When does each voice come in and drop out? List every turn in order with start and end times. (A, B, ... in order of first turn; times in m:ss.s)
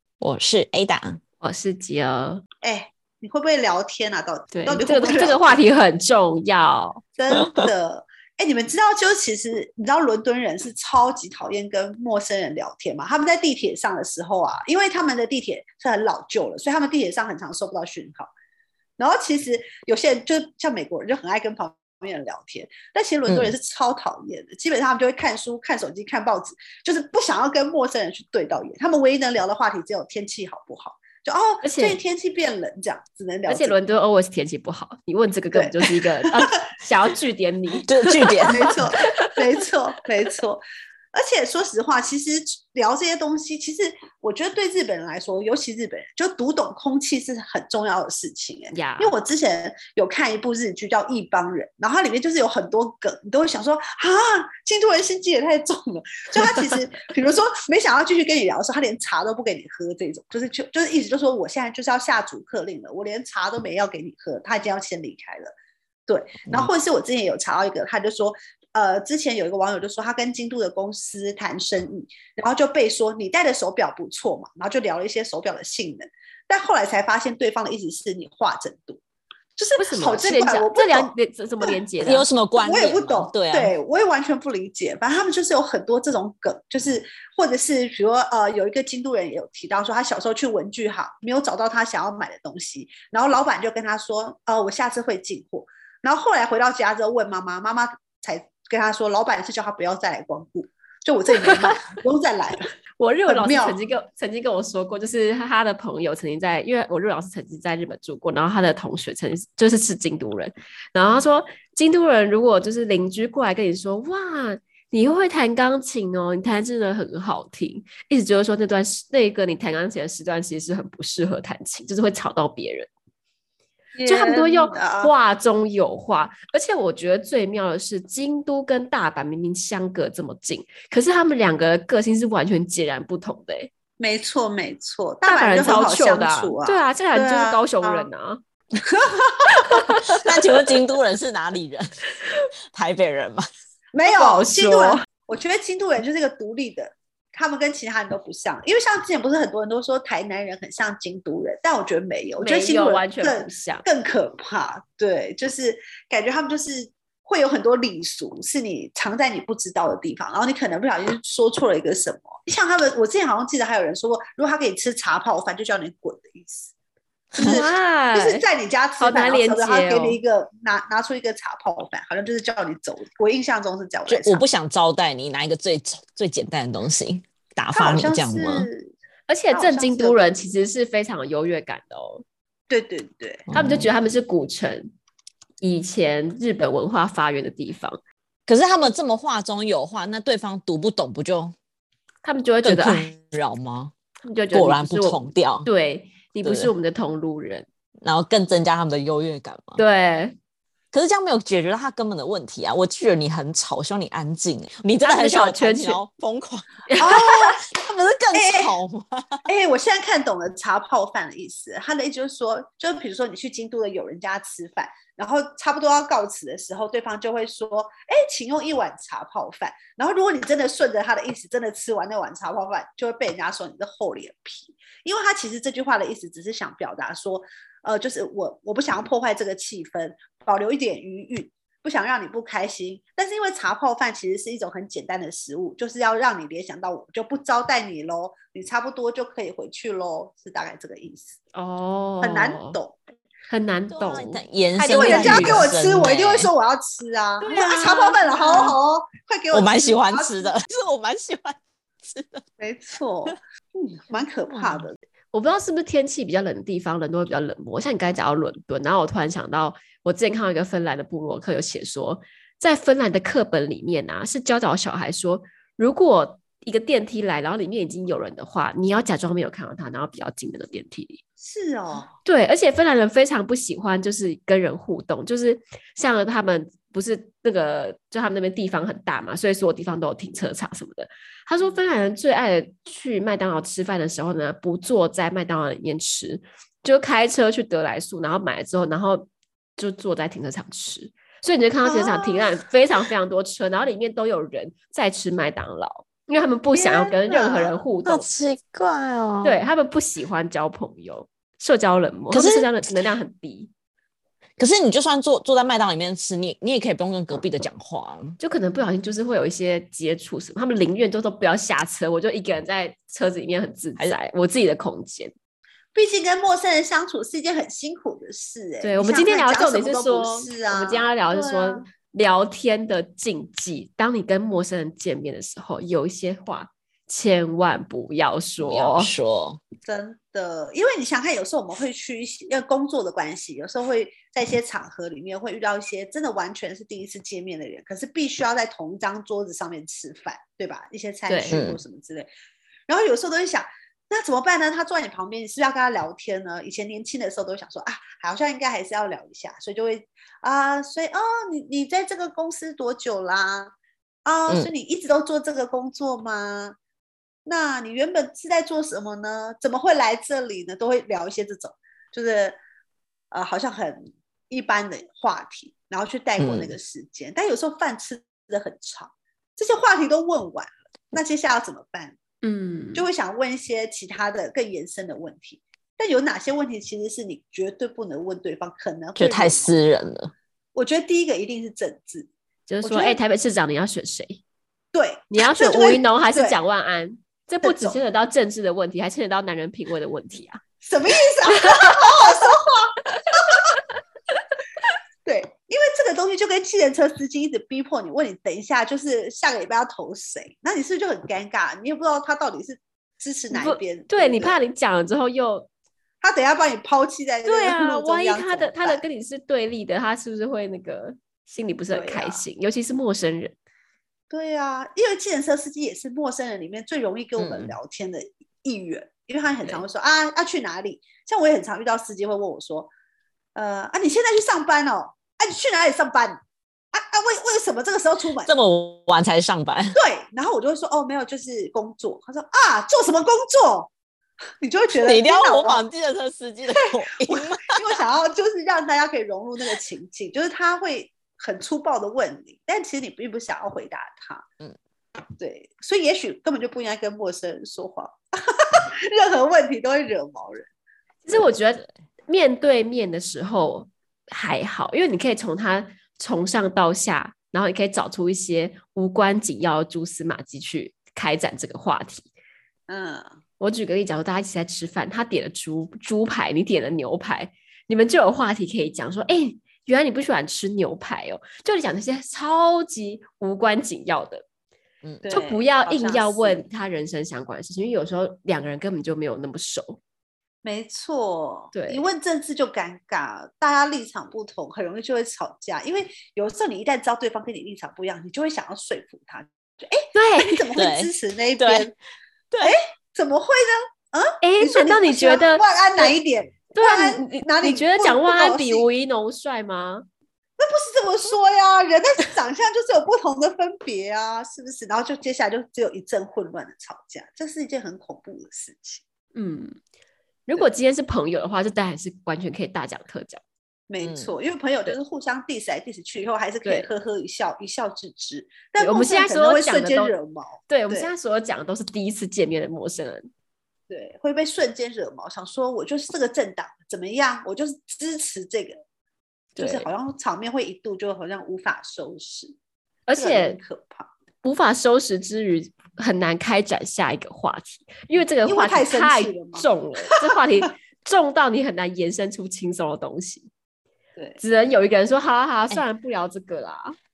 0:00.2-0:01.2 A
0:01.4-0:02.4 B
0:02.6-0:05.6 C
0:04.5-0:07.0 B
0:07.2-0:18.3 C
0:19.0-0:33.8 C
0:23.3-0:23.5 A
0:31.6-0:32.0 B
0:33.5-0:39.4 B
0:35.5-0:36.6 C
0:37.8-0:38.8 A
0:38.3-1:05.5 C
0:48.7-0:49.1 B
1:06.1-1:19.0 C
1:19.6-1:21.7 C
1:19.8-1:22.3 B
1:22.0-1:23.7 A
1:22.6-1:42.7 C
1:41.4-1:41.9 B
1:43.0-2:02.9 B
1:43.3-1:43.8 C
2:03.9-2:05.1 C
2:04.0-2:13.7 B
2:14.0-2:18.1 C
2:15.2-2:18.4 B
2:18.8-2:20.2 C
2:19.4-2:20.5 B
2:20.1-2:22.1 A
2:22.7-2:23.4 A
2:23.9-2:46.7 C
2:24.0-2:25.0 B
2:32.4-2:33.8 B
2:47.3-2:47.6 A
2:47.4-2:54.4 C
2:47.4-2:48.4 B
2:49.0-2:50.2 B
2:54.1-2:58.7 A
2:57.7-2:58.9 C
2:59.3-3:02.2 B
2:59.5-3:00.3 C
3:02.7-3:03.5 C
3:03.5-3:03.9 A
3:03.5-3:04.9 B
3:05.6-3:08.0 B
3:08.5-3:11.5 A
3:12.2-3:13.1 B
3:12.6-3:13.9 A
3:14.2-3:17.6 B
3:14.5-3:15.7 A
3:16.4-3:16.7 A
3:18.0-3:19.8 A
3:19.8-3:20.4 B
3:20.9-3:26.9 A
3:25.0-3:26.0 B
3:26.9-3:27.6 B
3:27.0-3:27.6 C
3:27.6-3:29.4 A
3:28.3-3:28.7 C
3:29.5-4:01.3 C
4:01.5-4:02.8 B
4:02.2-4:03.0 C
4:03.5-4:05.6 B
4:03.9-4:06.5 A
4:04.9-4:10.5 C
4:07.4-4:08.7 B
4:09.5-4:12.4 A
4:12.6-4:14.9 C
4:15.3-4:31.2 B
4:31.4-4:32.1 C
4:32.2-4:58.3 B
4:51.8-4:52.5 C
4:56.7-4:57.8 C
4:58.0-4:59.6 A
4:59.4-5:03.7 B
5:02.3-5:02.7 A
5:04.6-5:08.4 A
5:08.4-5:15.3 B
5:15.9-5:21.8 C
5:18.8-5:29.1 B
5:28.6-5:29.6 A
5:29.8-5:42.3 C
5:41.3-5:41.6 B
5:41.5-5:41.8 A
5:42.9-5:53.7 C
5:54.2-5:56.8 C
5:57.4-6:02.6 C
6:03.3-6:12.2 C
6:06.4-6:06.7 A
6:12.4-6:13.0 B
6:12.9-6:19.7 C
6:19.2-6:20.3 A
6:20.7-6:22.3 C
6:22.7-6:24.4 B
6:22.8-6:23.2 C
6:24.9-6:26.6 C
6:25.3-6:30.6 B
6:27.6-6:28.0 C
6:30.8-6:33.6 C
6:31.5-6:32.5 B
6:35.2-6:44.5 C
6:43.5-6:45.7 B
6:46.2-6:49.0 C
6:47.4-6:53.6 B
6:51.9-6:52.4 C
6:54.3-7:02.9 C
6:57.4-6:57.8 A
7:03.5-7:06.4 C
7:06.9-7:08.5 C
7:08.4-7:10.0 A
7:09.9-7:13.9 C
7:14.6-7:15.8 C
7:15.0-7:17.8 A
7:16.8-7:24.4 C
7:25.4-7:30.7 C
7:31.2-7:42.3 B
7:42.9-7:43.4 C
7:43.6-7:54.4 B
7:55.0-7:55.3 A
7:55.2-7:56.6 C
7:55.3-8:00.0 B
8:00.6-8:11.9 C
8:01.7-8:02.0 B
8:10.1-8:10.7 B
8:10.8-8:11.9 A
8:12.6-8:18.8 C
8:14.4-8:16.1 B
8:16.7-8:20.0 B
8:20.6-8:29.0 C
8:29.3-8:29.8 B
8:30.5-8:33.4 B
8:33.9-8:41.1 C
8:34.0-8:34.3 A
8:38.8-8:40.1 B
8:40.7-8:43.3 B
8:43.9-8:48.8 C
8:49.6-8:49.9 B
8:49.6-8:52.6 C
8:53.1-8:53.6 B
8:53.1-8:54.1 C
8:54.4-9:03.5 B
8:58.4-8:59.7 C
9:04.4-9:07.0 B